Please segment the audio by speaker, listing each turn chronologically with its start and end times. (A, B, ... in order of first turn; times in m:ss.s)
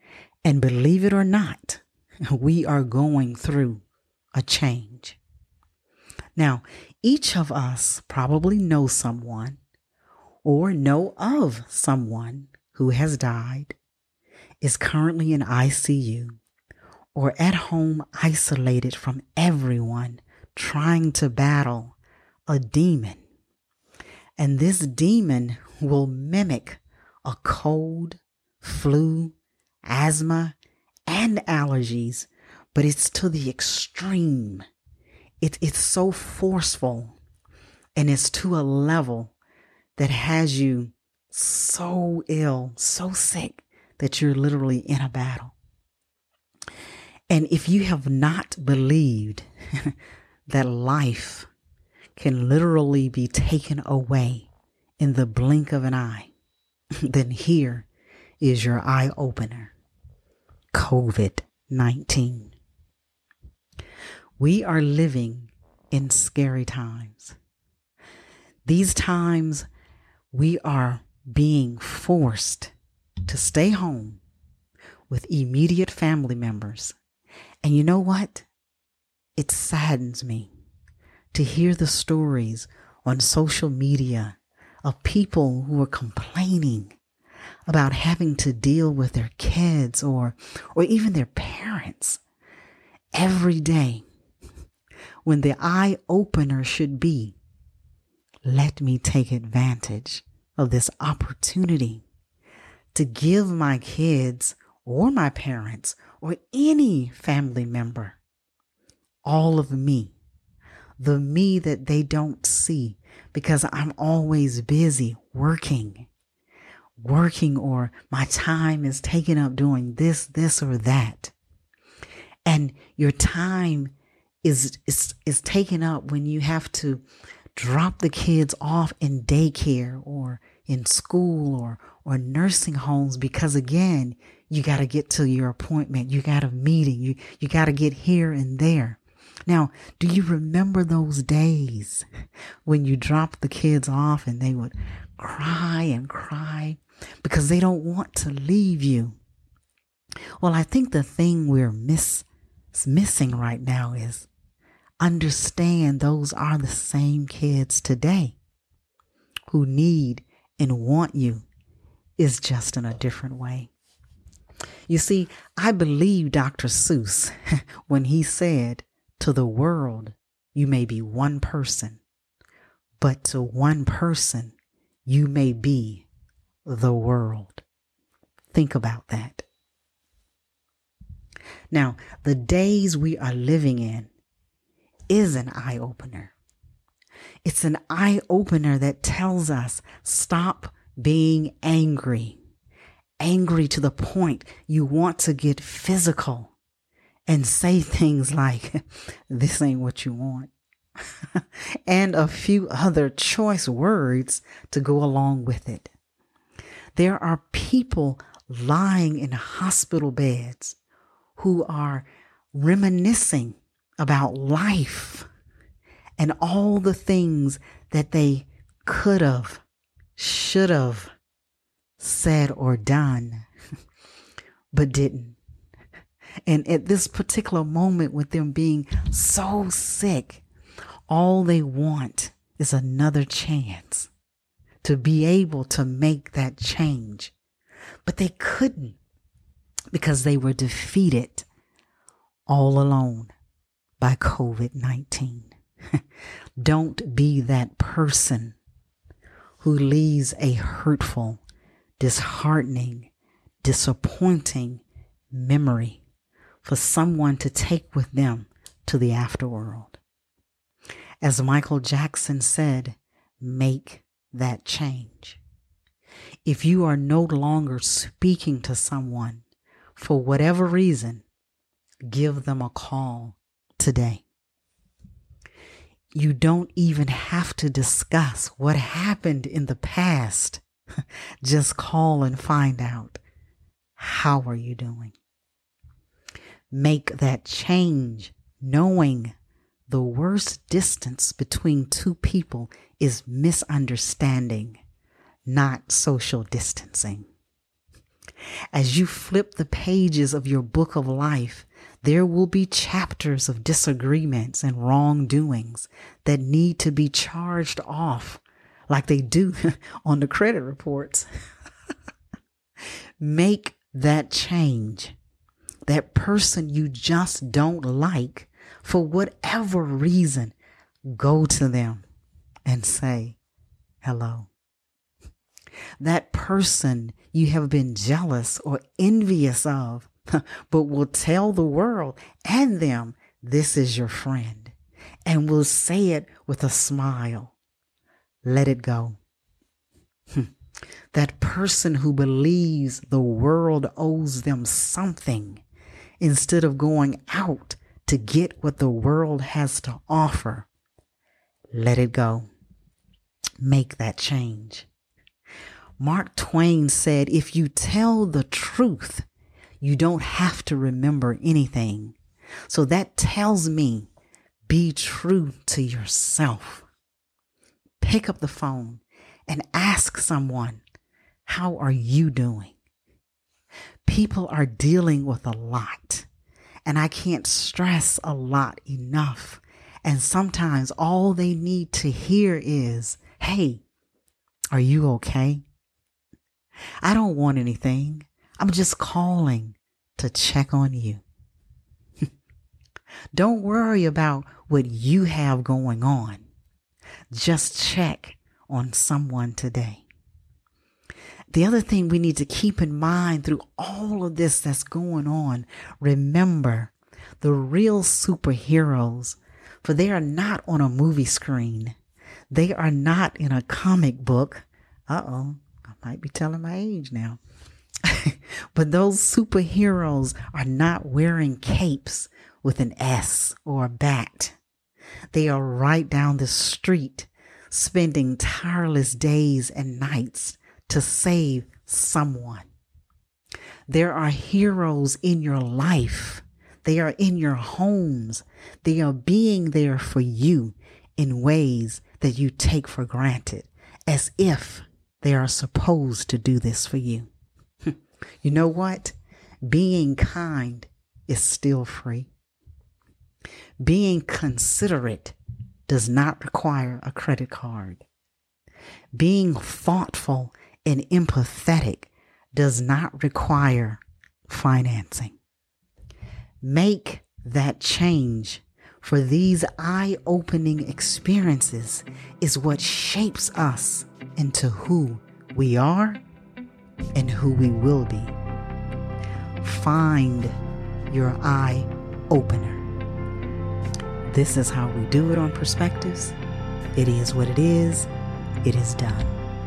0:00.4-0:03.8 A
0:04.4-0:05.2 A
0:06.4-0:09.6 A
0:10.4-0:13.8 A
0:14.6-0:16.4 A
0:17.1-0:22.0 A
0:22.5-0:23.2 A
0:24.4-0:34.6 A
0:35.4-0:37.2 A
0:38.0-0:39.3 A
0:40.0-0:45.5 A
0:47.3-0:49.9 A
0:50.5-0:51.5 A
0:52.2-0:56.3 A
0:57.0-0:57.9 A
0:58.4-0:59.7 A
1:00.7-1:02.5 A
1:04.4-1:07.4 A
1:08.6-1:09.7 A
1:10.3-1:12.7 A
1:13.2-1:14.2 A
1:15.1-1:17.0 A
1:17.6-1:18.5 A
1:19.4-1:20.5 A
1:21.3-1:26.9 A
1:27.7-1:32.2 A
1:33.1-1:34.0 A
1:35.2-1:37.4 A
1:38.4-1:42.0 A
1:42.9-1:48.2 A
1:49.2-1:50.2 A
1:51.0-1:56.1 A
1:57.0-2:01.3 A
2:02.4-2:22.1 A
2:22.6-2:29.2 A
2:30.4-2:34.3 A
2:35.0-2:38.4 A
2:39.5-2:41.5 A
2:42.2-2:43.7 A
2:44.9-2:47.3 A
2:47.8-2:52.0 A
2:53.0-2:54.5 A
2:55.0-2:56.1 A
2:56.6-2:57.6 A
2:58.5-2:59.5 A
3:01.7-3:04.1 A
3:05.1-3:06.3 A
3:07.4-3:12.4 A
3:13.2-3:16.5 A
3:17.3-3:20.5 A
3:21.3-3:25.9 A
3:27.0-3:30.8 A
3:31.4-3:35.3 A
3:36.2-3:39.6 A
3:40.2-3:41.1 A
3:42.0-3:43.4 A
3:44.7-3:45.4 A
3:46.4-3:50.4 A
3:51.1-3:54.1 A
3:54.8-3:57.3 A
3:58.0-3:59.0 A
3:59.9-4:01.4 A
4:02.5-4:03.3 A
4:04.0-4:05.5 A
4:06.6-4:08.6 A
4:09.6-4:11.4 A
4:12.0-4:13.1 A
4:13.6-4:16.0 A
4:16.6-4:20.0 A
4:21.2-4:25.4 A
4:26.4-4:29.4 A
4:30.0-4:31.2 A
4:32.1-4:34.2 A
4:36.1-4:40.6 A
4:41.4-4:43.2 A
4:44.0-4:45.1 A
4:46.7-4:49.3 A
4:49.9-4:54.8 A
4:55.4-4:57.3 A
4:58.7-5:11.3 A
5:13.2-5:15.2 A
5:15.9-5:20.5 A
5:21.1-5:22.0 A
5:22.6-5:23.4 A
5:24.0-5:24.5 A
5:26.0-5:34.7 A
5:35.2-5:37.5 A
5:38.4-5:39.2 A
5:41.1-5:45.6 A
5:46.2-5:50.7 A
5:51.7-5:52.5 A
5:53.6-5:54.9 A
5:56.0-5:59.2 A
5:59.8-6:02.2 A
6:02.7-6:04.1 A
6:04.7-6:06.8 A
6:08.0-6:10.8 A
6:11.4-6:12.7 A
6:14.0-6:16.3 A
6:16.8-6:23.8 A
6:24.7-6:25.6 A
6:27.0-6:31.2 A
6:33.3-6:36.4 A
6:37.3-6:40.0 A
6:41.5-6:52.0 A
6:52.5-6:57.4 A
6:58.0-7:04.6 A
7:05.3-7:12.7 A
7:13.9-7:27.3 A
7:28.4-7:32.3 A
7:33.8-7:35.4 A
7:35.9-7:38.0 A
7:39.1-7:45.4 A
7:46.6-7:56.2 A
7:57.1-7:58.4 A
7:59.6-8:00.6 A
8:01.1-8:02.8 A
8:04.3-8:06.4 A
8:07.0-8:08.1 A
8:08.6-8:09.4 A